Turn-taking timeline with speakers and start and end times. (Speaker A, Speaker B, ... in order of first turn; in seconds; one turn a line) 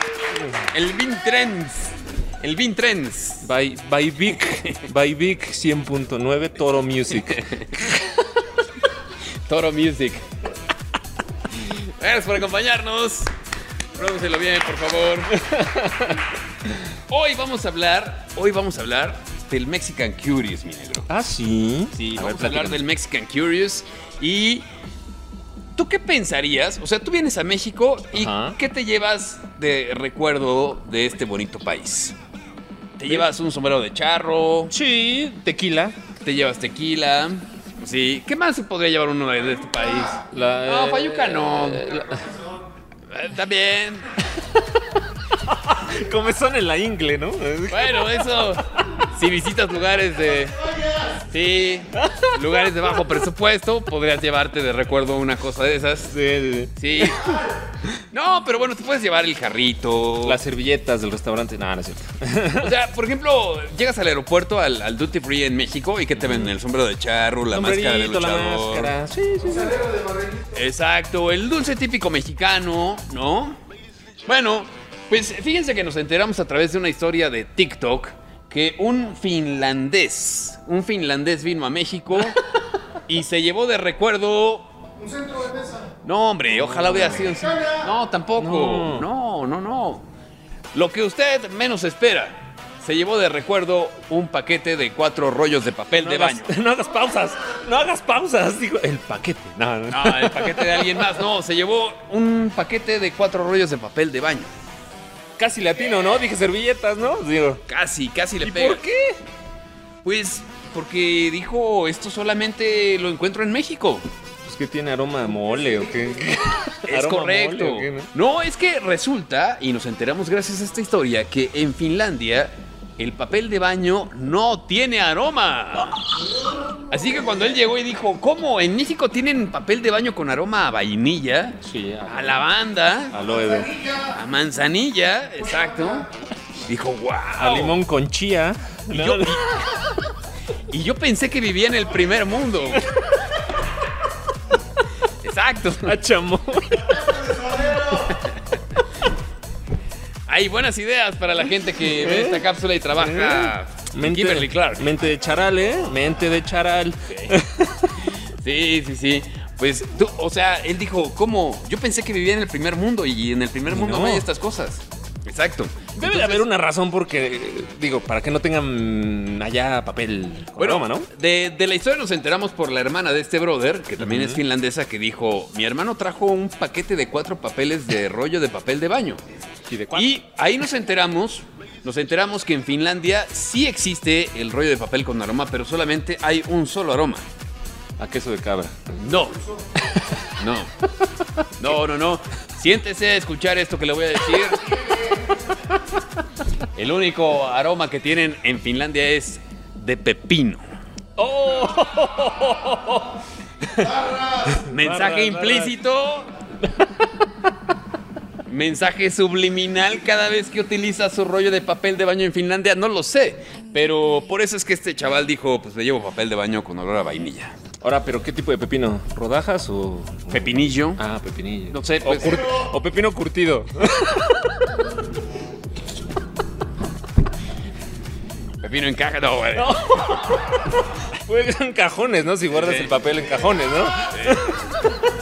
Speaker A: 0.7-3.5
Speaker B: 3.4-7.5
Speaker A: 4.4-4.9
Speaker A: 7.3-7.7
Speaker A: 9.5-10.2
Speaker A: 11.5-13.3
Speaker A: 13.9-15.3
Speaker B: 15.4-16.2
Speaker A: 17.1-21.1
Speaker B: 21.1-22.9
Speaker A: 21.9-24.7
Speaker A: 25.8-32.2
Speaker B: 28.1-28.6
Speaker A: 33.0-34.7
Speaker B: 34.7-36.0
Speaker A: 36.2-42.0
Speaker B: 40.3-42.3
Speaker A: 43.1-44.1
Speaker B: 45.5-48.6
Speaker A: 47.7-56.1
Speaker B: 56.1-57.1
Speaker A: 56.8-57.4
Speaker A: 58.1-60.4
Speaker B: 60.2-62.7
Speaker A: 62.6-68.9
Speaker B: 66.2-66.5
Speaker B: 67.5-70.0
Speaker A: 70.5-73.6
Speaker A: 74.3-82.4
Speaker A: 83.1-84.7
Speaker A: 86.0-90.1
Speaker B: 86.5-87.3
Speaker B: 88.4-89.1
Speaker A: 90.7-96.5
Speaker B: 96.0-101.2
Speaker A: 99.9-104.5
Speaker B: 105.4-107.6
Speaker A: 107.7-108.8
Speaker B: 108.4-109.2
Speaker A: 110.0-114.0
Speaker B: 114.5-118.1
Speaker A: 116.9-126.0
Speaker A: 126.9-133.2
Speaker B: 131.6-132.4
Speaker B: 133.1-133.7
Speaker A: 134.1-136.1
Speaker A: 136.7-137.8
Speaker B: 137.4-139.7
Speaker A: 138.9-139.4
Speaker A: 140.7-142.9
Speaker A: 145.2-146.0
Speaker B: 145.9-147.3
Speaker A: 147.5-148.4
Speaker A: 150.3-154.9
Speaker B: 151.9-158.1
Speaker A: 157.1-157.4
Speaker A: 158.1-166.5
Speaker B: 163.7-164.3
Speaker B: 166.0-171.1
Speaker A: 170.6-179.2
Speaker B: 174.0-174.4
Speaker B: 179.7-180.1
Speaker A: 179.9-187.2
Speaker B: 188.0-189.0
Speaker A: 189.0-189.4
Speaker B: 189.8-190.2
Speaker A: 190.4-190.7
Speaker A: 191.6-194.8
Speaker A: 196.8-200.6
Speaker B: 201.2-203.1
Speaker B: 203.7-205.7
Speaker A: 204.7-206.3
Speaker A: 208.5-217.6
Speaker B: 217.8-224.6
Speaker A: 220.3-221.0
Speaker A: 221.7-222.6
Speaker A: 228.6-230.2
Speaker B: 229.5-235.0
Speaker A: 232.5-233.0
Speaker A: 234.1-234.6